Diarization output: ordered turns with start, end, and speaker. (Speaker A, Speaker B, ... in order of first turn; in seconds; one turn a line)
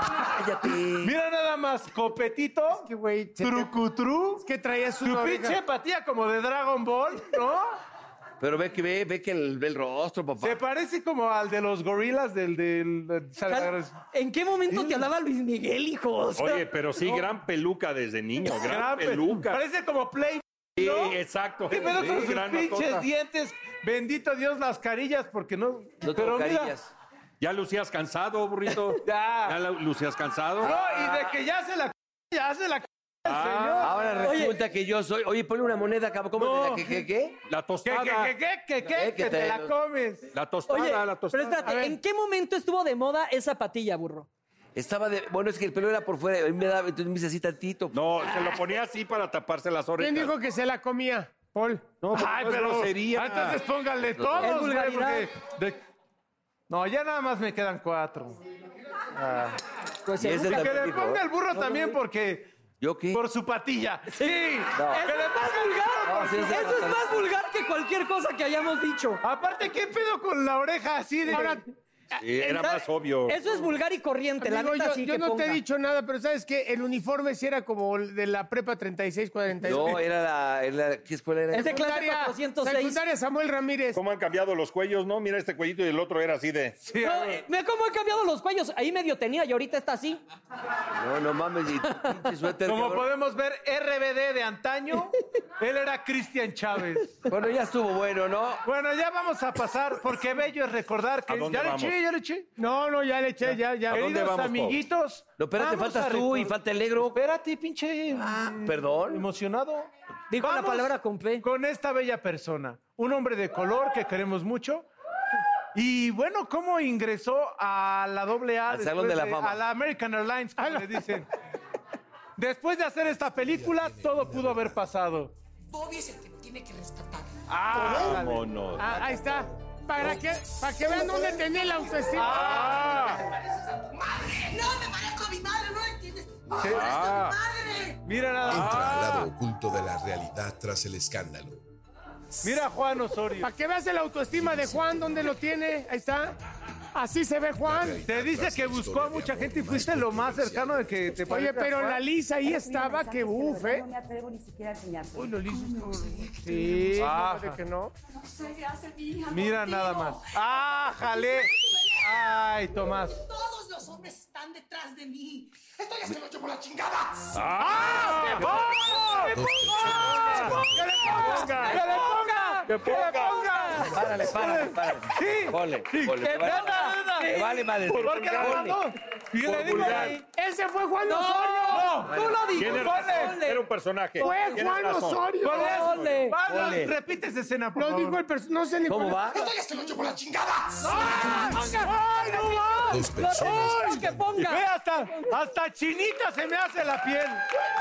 Speaker A: 0.2-1.1
Speaker B: 1.0-2.9
Speaker C: 2.7-3.8
Speaker B: 3.4-4.4
Speaker C: 4.4-5.6
Speaker B: 5.0-7.7
Speaker A: 8.4-10.6
Speaker B: 10.4-13.9
Speaker D: 13.5-16.6
Speaker B: 14.7-15.0
Speaker E: 16.4-19.6
Speaker B: 18.6-21.1
Speaker E: 20.8-23.0
Speaker B: 21.7-26.7
Speaker A: 26.0-26.9
Speaker E: 27.4-30.8
Speaker B: 29.0-29.6
Speaker B: 30.6-34.1
Speaker E: 33.2-33.9
Speaker A: 33.8-37.4
Speaker D: 34.2-34.6
Speaker B: 36.4-37.0
Speaker E: 37.5-38.3
Speaker B: 37.8-40.2
Speaker A: 38.8-39.7
Speaker E: 40.3-41.7
Speaker D: 40.7-44.3
Speaker C: 41.6-42.0
Speaker A: 44.7-48.2
Speaker E: 47.9-50.3
Speaker C: 50.0-52.0
Speaker E: 52.0-53.6
Speaker B: 52.1-55.8
Speaker A: 54.1-54.5
Speaker D: 54.4-55.3
Speaker B: 56.7-58.4
Speaker B: 59.1-59.5
Speaker D: 60.0-61.0
Speaker A: 60.2-61.2
Speaker B: 60.4-62.5
Speaker D: 61.5-61.9
Speaker A: 62.8-63.2
Speaker B: 63.1-66.8
Speaker D: 64.1-69.2
Speaker A: 64.7-65.1
Speaker A: 66.0-67.1
Speaker B: 69.2-71.6
Speaker C: 71.3-71.6
Speaker E: 72.2-73.4
Speaker C: 72.4-72.7
Speaker D: 73.3-75.6
Speaker C: 74.4-80.0
Speaker A: 79.6-81.8
Speaker D: 81.5-83.0
Speaker C: 81.6-84.0
Speaker E: 83.9-86.8
Speaker B: 86.8-87.4
Speaker D: 87.0-90.2
Speaker A: 91.0-93.1
Speaker B: 92.6-97.2
Speaker A: 97.3-98.6
Speaker B: 98.6-102.5
Speaker E: 101.3-102.0
Speaker C: 102.6-103.9
Speaker B: 103.5-106.5
Speaker E: 103.9-104.8
Speaker A: 105.4-107.2
Speaker B: 107.1-114.9
Speaker A: 108.4-109.3
Speaker D: 110.3-111.4
Speaker B: 115.7-121.3
Speaker A: 118.7-119.6
Speaker C: 120.6-121.0
Speaker B: 122.4-125.3
Speaker F: 123.2-124.8
Speaker G: 125.7-126.5
Speaker B: 127.5-128.4
Speaker C: 127.7-128.2
Speaker E: 127.7-129.0
Speaker C: 128.8-133.1
Speaker B: 132.1-132.9
Speaker E: 132.2-133.2
Speaker G: 133.3-138.0
Speaker B: 136.6-136.9
Speaker E: 136.6-137.4
Speaker B: 138.1-139.2
Speaker F: 138.4-141.6
Speaker E: 138.5-138.8
Speaker B: 142.4-143.5
Speaker C: 143.4-146.3
Speaker F: 144.4-145.0
Speaker C: 146.9-148.0
Speaker F: 147.6-150.9
Speaker B: 148.0-152.0
Speaker C: 151.3-153.9
Speaker G: 152.4-156.6
Speaker C: 155.1-157.9
Speaker B: 156.9-157.6
Speaker G: 158.3-160.3
Speaker B: 159.3-161.5
Speaker G: 161.1-162.3
Speaker B: 162.0-163.2
Speaker G: 163.1-167.4
Speaker E: 167.3-168.6
Speaker B: 167.6-180.2
Speaker G: 168.6-169.1
Speaker F: 169.3-171.3
Speaker C: 170.2-171.9
Speaker E: 172.7-173.7
Speaker A: 173.9-178.8
Speaker D: 176.3-177.5
Speaker A: 179.4-180.2
Speaker E: 179.5-180.2
Speaker C: 180.3-182.0
Speaker D: 181.1-183.6
Speaker B: 181.7-183.4
Speaker A: 182.1-182.8
Speaker E: 182.5-186.2
Speaker D: 184.2-184.6
Speaker C: 184.2-185.8
Speaker B: 185.4-188.2
Speaker D: 185.5-186.4
Speaker A: 186.4-186.9
Speaker C: 187.7-189.3
Speaker A: 188.9-189.5
Speaker G: 189.3-191.7
Speaker D: 190.8-195.3
Speaker B: 190.9-193.0
Speaker F: 192.9-194.4
Speaker B: 194.4-197.4